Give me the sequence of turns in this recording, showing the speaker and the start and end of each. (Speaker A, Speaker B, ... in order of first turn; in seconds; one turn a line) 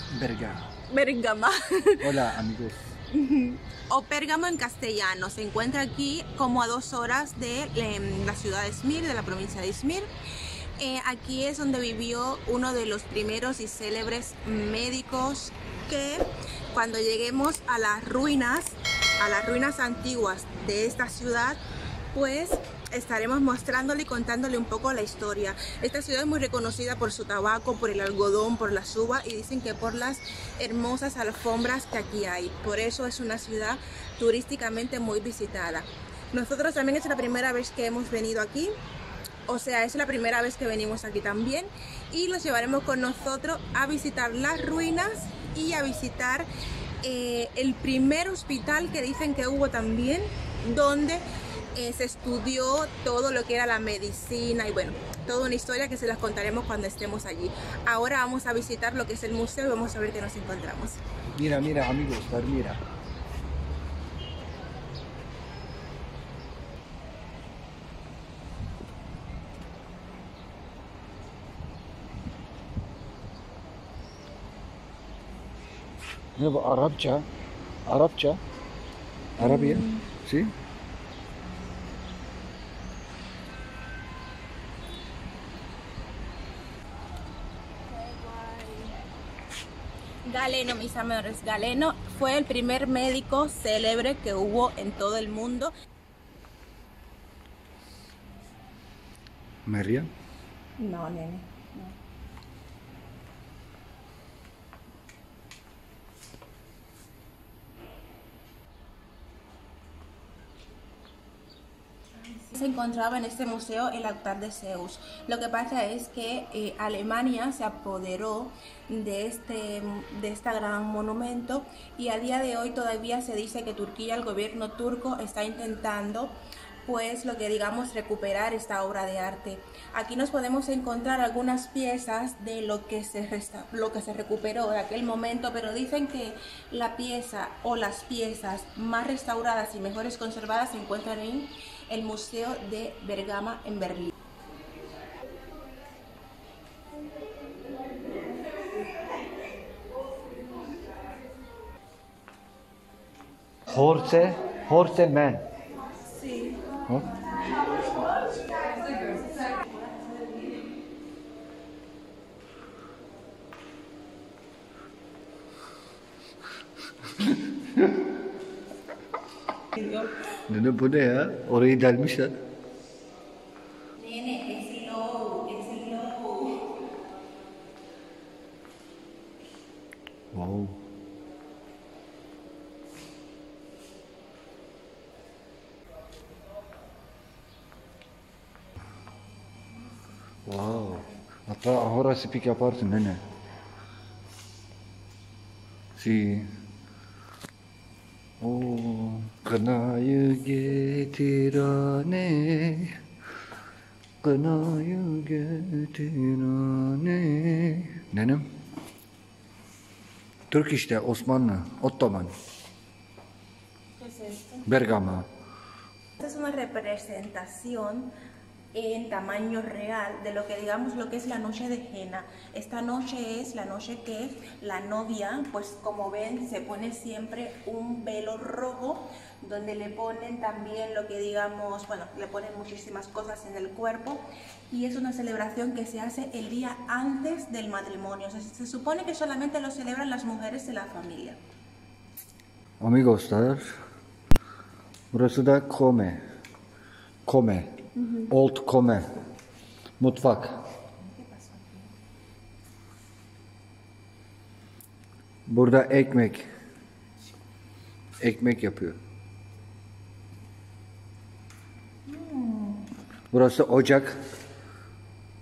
Speaker A: 0.1-0.7
Speaker B: 0.9-2.2
Speaker A: 2.0-2.9
Speaker B: 3.1-10.1
Speaker B: 10.8-21.6
Speaker B: 22.1-38.7
Speaker B: 39.5-46.5
Speaker B: 47.0-61.0
Speaker A: 61.4-62.8
Speaker A: 76.3-77.3
Speaker A: 77.8-78.4
Speaker A: 79.4-80.5
Speaker B: 79.4-80.0
Speaker B: 87.9-89.0
Speaker B: 90.2-95.7
Speaker A: 99.7-100.1
Speaker B: 100.8-101.9
Speaker B: 112.2-144.1
Speaker A: 153.7-155.4
Speaker B: 156.2-156.5
Speaker A: 156.9-157.1
Speaker B: 159.0-159.5
Speaker A: 167.2-167.9
Speaker B: 169.8-170.1
Speaker A: 170.5-172.4
Speaker B: 174.0-176.6
Speaker A: 180.3-180.8
Speaker A: 190.4-193.2
Speaker A: 195.9-196.5
Speaker A: 198.4-203.0
Speaker A: 204.2-208.5
Speaker A: 210.5-212.3
Speaker B: 214.0-214.7
Speaker A: 214.6-215.3
Speaker B: 216.2-218.1
Speaker B: 218.7-241.4
Speaker A: 242.8-243.8
Speaker A: 245.1-246.2
Speaker A: 247.2-247.7
Speaker A: 248.3-249.1
Speaker A: 250.0-250.6
Speaker B: 251.1-251.9
Speaker A: 255.5-256.5
Speaker A: 258.2-259.0
Speaker B: 262.1-262.9
Speaker A: 263.3-264.2